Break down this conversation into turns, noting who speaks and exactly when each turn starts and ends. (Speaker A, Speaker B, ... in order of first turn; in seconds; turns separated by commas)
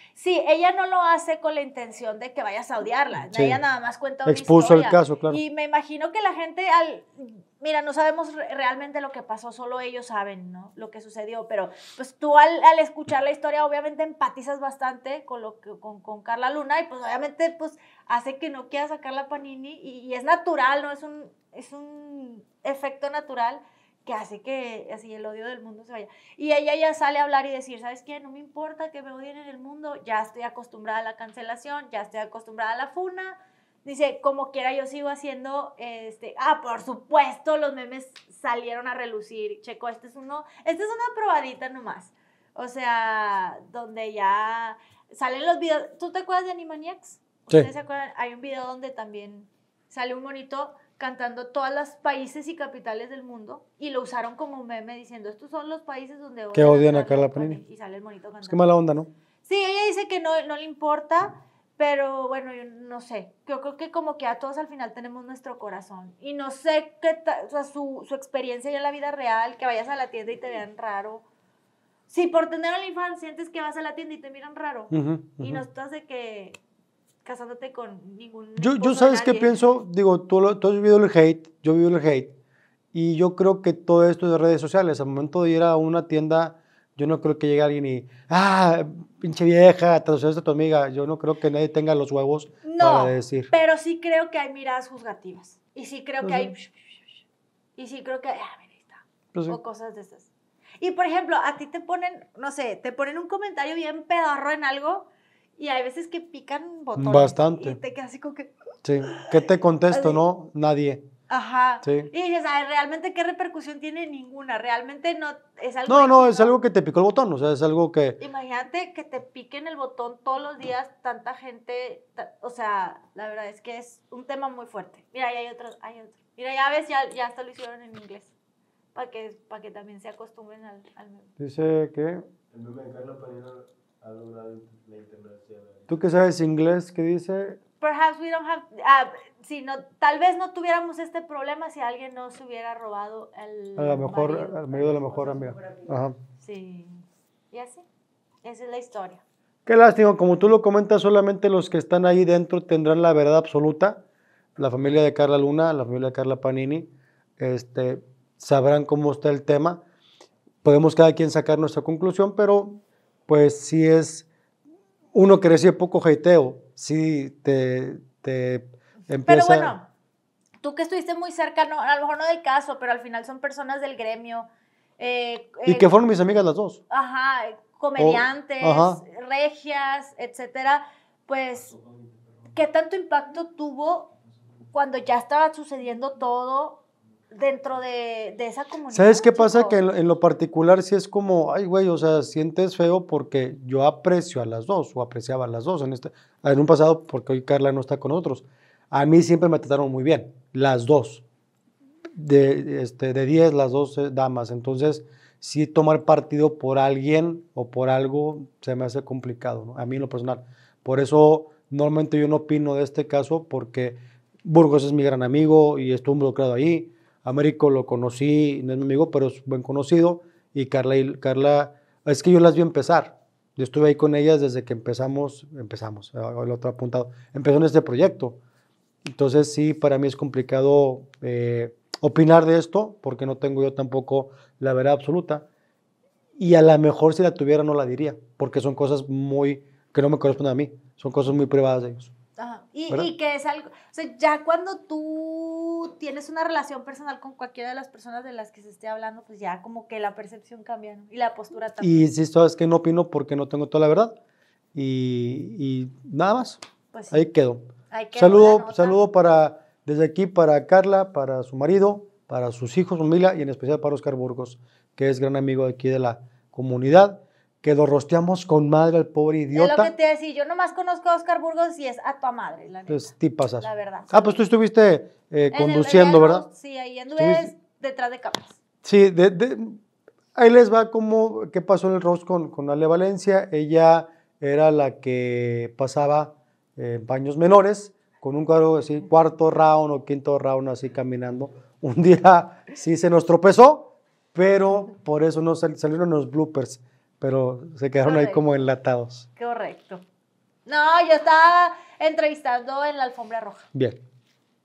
Speaker A: 0.1-58.6, Speaker B: 3.3-3.6, Speaker B: 4.2-5.4, Speaker B: 56.5-57.6, Speaker B: 58.4-59.1, Speaker A: 59.4-71.2, Speaker A: 72.1-76.6, Speaker B: 74.9-75.6, Speaker A: 77.2-79.5, Speaker B: 78.6-82.3, Speaker B: 82.9-93.5, Speaker A: 92.6-97.0, Speaker B: 96.2-96.5, Speaker A: 97.8-100.3, Speaker A: 100.8-108.5, Speaker B: 107.0-107.8, Speaker B: 108.8-111.0, Speaker A: 109.9-110.2, Speaker A: 111.3-116.5, Speaker B: 111.8-112.1, Speaker B: 115.9-118.2, Speaker A: 118.2-128.3, Speaker A: 128.9-131.3, Speaker B: 131.4-132.2, Speaker C: 132.5-136.0, Speaker B: 135.9-137.6, Speaker A: 137.8-145.7, Speaker B: 143.8-146.2, Speaker A: 146.4-147.8, Speaker A: 148.4-149.2, Speaker B: 149.7-154.0, Speaker B: 154.6-159.8, Speaker B: 160.6-164.3, Speaker B: 165.1-169.7, Speaker A: 169.2-169.9, Speaker A: 170.6-174.5, Speaker A: 175.0-175.9, Speaker B: 175.6-176.8, Speaker A: 176.9-181.8, Speaker B: 178.0-179.0, Speaker A: 182.5-184.1, Speaker A: 184.7-186.8, Speaker A: 187.3-189.8, Speaker B: 188.9-201.2, Speaker B: 202.2-228.4, Speaker B: 229.0-235.5, Speaker B: 236.4-242.1, Speaker A: 242.4-252.0, Speaker B: 251.8-254.1, Speaker B: 254.7-269.9, Speaker A: 256.9-257.2, Speaker A: 257.9-259.0, Speaker A: 269.5-274.4, Speaker B: 272.9-276.5, Speaker A: 275.5-278.6, Speaker B: 277.1-277.5, Speaker B: 278.8-279.8, Speaker B: 280.4-299.3, Speaker A: 298.0-298.4, Speaker A: 299.4-300.0, Speaker A: 300.6-303.7, Speaker B: 303.7-304.0